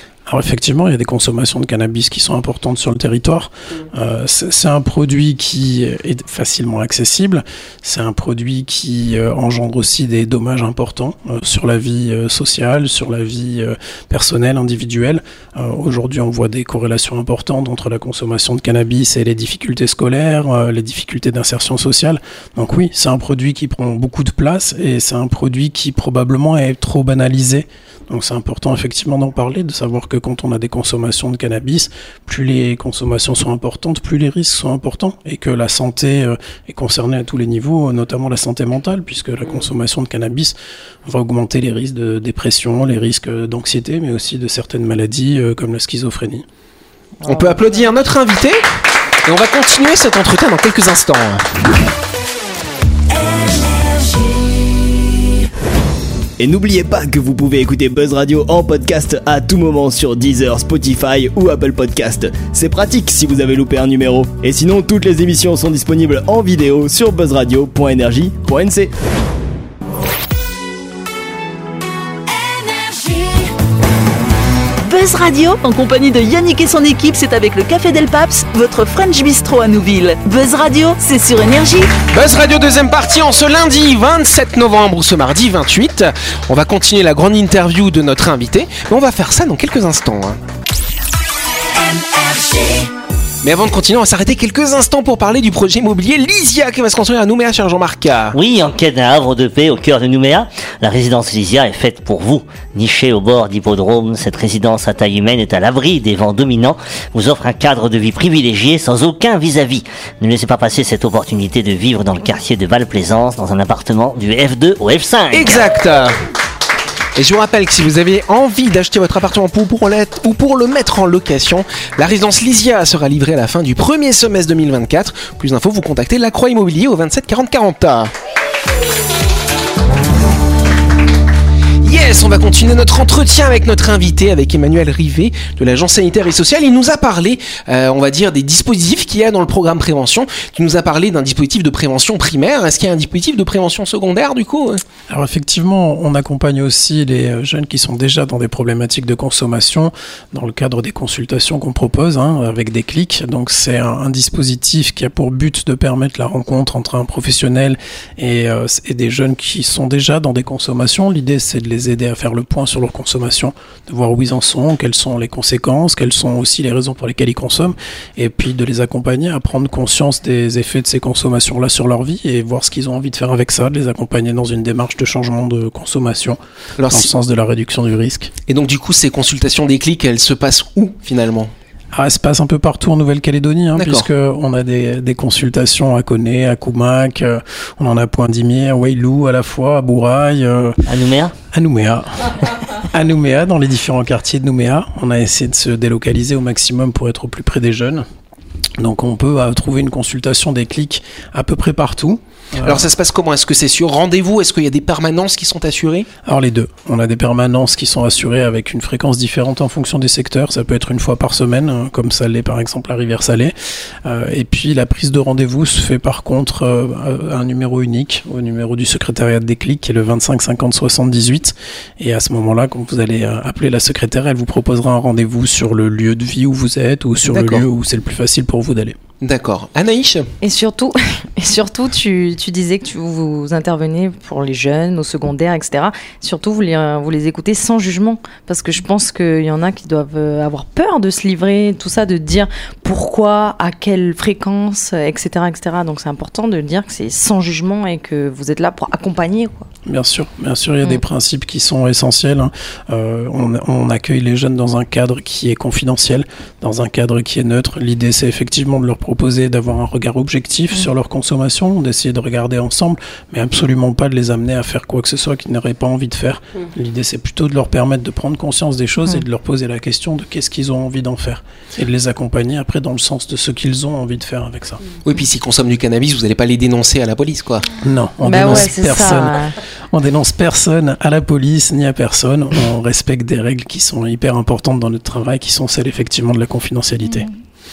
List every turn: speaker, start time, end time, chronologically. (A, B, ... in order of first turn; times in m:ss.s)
0:00.3-0:46.4 A
0:47.2-0:48.6 B
0:47.3-0:47.6 C
0:49.2-0:51.4 B
0:56.4-1:08.9 D
1:14.8-1:22.0 E
1:22.1-1:30.4 B
1:33.4-1:38.4 B
1:38.3-1:55.6 F
1:55.3-1:56.2 B
1:57.2-2:08.1 B
2:11.8-2:24.8 B
2:25.1-2:56.4 A
2:56.8-2:57.1 B
2:56.9-2:58.3 A
2:58.5-3:01.5 B
3:01.9-3:10.8 A
3:03.8-3:04.1 B
3:10.8-3:11.3 F
3:11.5-3:18.0 A
3:18.8-3:22.8 A
3:22.6-3:26.1 B
3:26.2-3:33.5 A
3:34.0-3:49.0 A
3:47.2-3:47.6 B
3:49.2-3:50.3 B
3:50.4-4:09.7 C
4:09.8-4:34.8 A
4:35.0-4:37.7 B
4:37.8-4:39.4 A
4:38.2-4:39.5 C
4:39.9-4:47.3 A